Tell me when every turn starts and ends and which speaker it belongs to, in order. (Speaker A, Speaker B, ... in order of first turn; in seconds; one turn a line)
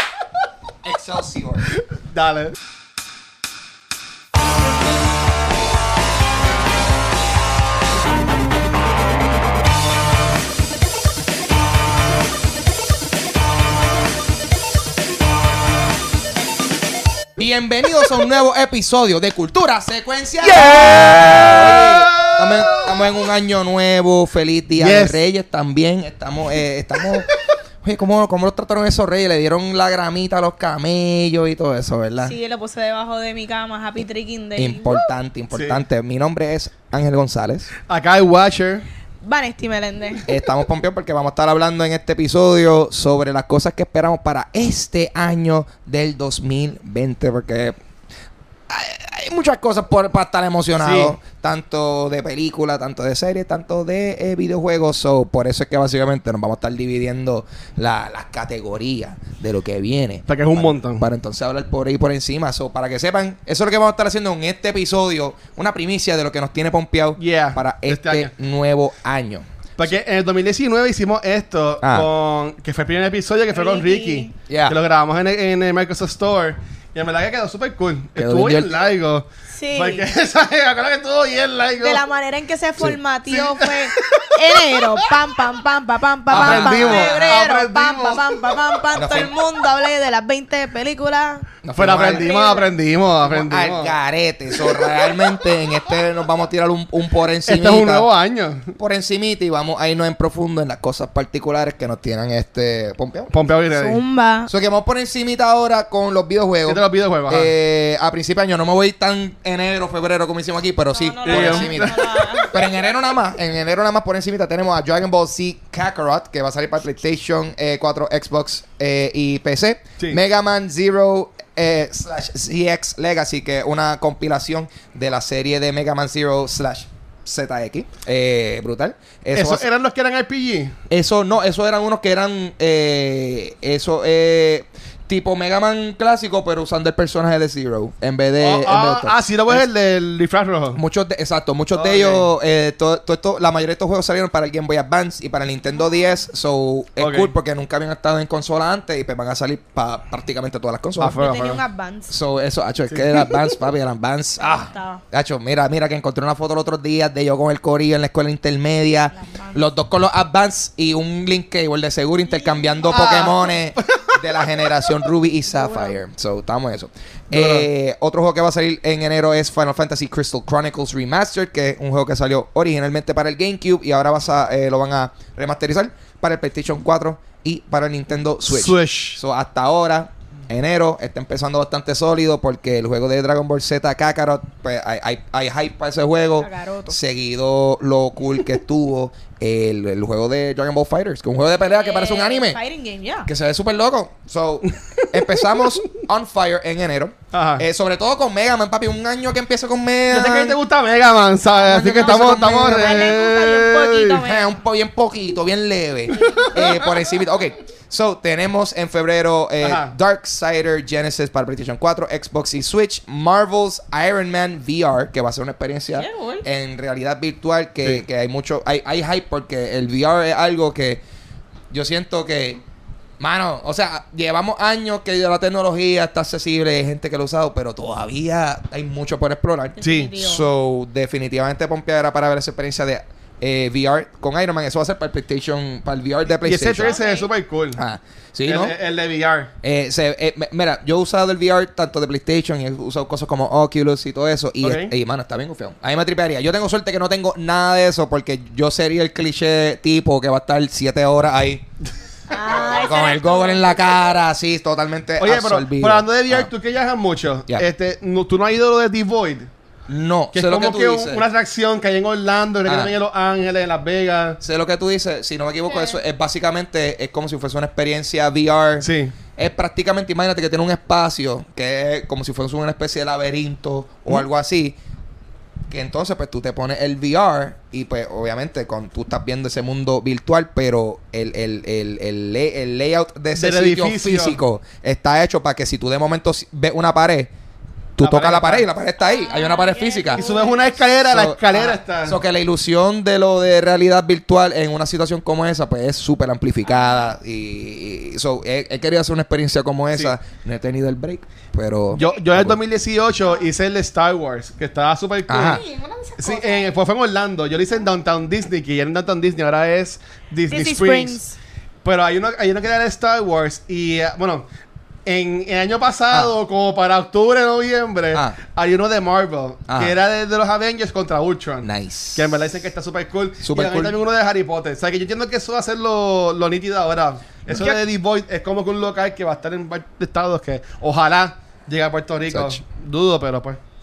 Speaker A: 0.8-1.7
Speaker B: 1.9-2.6
Speaker A: 17.4-27.3
Speaker B: 20.4-22.9
Speaker B: 24.8-25.2
Speaker A: 27.8-32.3
Speaker C: 32.2-35.0
Speaker A: 34.6-37.7
Speaker B: 35.5-35.8
Speaker B: 37.9-38.9
Speaker C: 39.2-40.2
Speaker A: 40.3-47.8
Speaker A: 48.7-69.4
Speaker B: 50.8-51.2
Speaker B: 60.3-61.0
Speaker B: 67.2-68.3
Speaker B: 69.8-82.0
Speaker A: 71.8-72.1
Speaker C: 73.5-74.3
Speaker A: 74.5-74.8
Speaker A: 78.2-78.7
Speaker C: 79.5-80.0
Speaker C: 81.8-91.5
Speaker B: 83.3-85.3
Speaker B: 86.3-88.8
Speaker A: 86.3-87.4
Speaker A: 88.9-89.3
Speaker A: 91.6-92.3
Speaker B: 91.8-93.9
Speaker C: 92.1-92.7
Speaker A: 93.2-98.1
Speaker B: 94.6-95.0
Speaker B: 97.5-98.7
Speaker A: 98.8-103.3
Speaker B: 103.3-104.0
Speaker C: 103.7-104.5
Speaker A: 104.5-129.6
Speaker B: 106.7-107.5
Speaker C: 110.9-112.7
Speaker B: 111.2-112.1
Speaker B: 129.4-130.8
Speaker A: 130.9-139.7
Speaker B: 138.4-140.8
Speaker A: 140.7-151.5
Speaker B: 141.8-142.3
Speaker B: 147.0-147.3
Speaker B: 151.0-151.6
Speaker C: 151.1-152.1
Speaker A: 152.1-192.6
Speaker B: 152.9-153.4
Speaker C: 154.4-155.0
Speaker C: 159.1-159.6
Speaker C: 162.3-163.2
Speaker B: 162.9-164.5
Speaker C: 165.5-166.0
Speaker B: 167.3-167.7
Speaker B: 178.5-179.2
Speaker C: 186.4-187.0
Speaker C: 191.7-193.3
Speaker A: 193.2-200.6
Speaker B: 197.3-197.6
Speaker B: 200.1-204.2
Speaker A: 201.5-203.2
Speaker C: 201.8-204.6
Speaker A: 204.2-221.0
Speaker C: 206.2-206.8
Speaker B: 206.2-206.8
Speaker B: 209.6-209.9
Speaker C: 215.9-216.4
Speaker A: 221.7-222.6
Speaker A: 223.2-236.9
Speaker C: 229.8-230.5
Speaker B: 229.8-230.2
Speaker B: 236.4-237.8
Speaker C: 236.8-237.3
Speaker A: 237.8-238.7
Speaker B: 238.5-239.5
Speaker A: 239.6-251.7
Speaker B: 244.6-244.9
Speaker C: 252.3-253.8
Speaker A: 252.4-256.5
Speaker B: 255.2-259.5
Speaker A: 259.9-261.2
Speaker B: 260.3-264.4
Speaker A: 262.7-262.9
Speaker A: 264.4-274.8
Speaker C: 265.7-266.0
Speaker B: 268.8-269.1
Speaker A: 275.7-287.3
Speaker B: 283.4-284.4
Speaker A: 288.0-290.2
Speaker B: 288.0-288.7
Speaker C: 289.0-290.8
Speaker B: 290.1-292.2
Speaker A: 291.1-302.6
Speaker C: 296.6-297.1
Speaker C: 301.9-302.3
Speaker B: 301.9-305.6
Speaker C: 303.2-303.5
Speaker A: 305.3-305.6
Speaker C: 305.4-306.7
Speaker B: 306.2-311.2
Speaker C: 310.5-311.4
Speaker B: 311.8-314.4
Speaker B: 315.1-333.6
Speaker A: 318.1-318.4
Speaker A: 319.7-319.9
Speaker A: 321.6-322.3
Speaker A: 323.4-324.0
Speaker C: 327.5-327.8
Speaker A: 332.3-332.6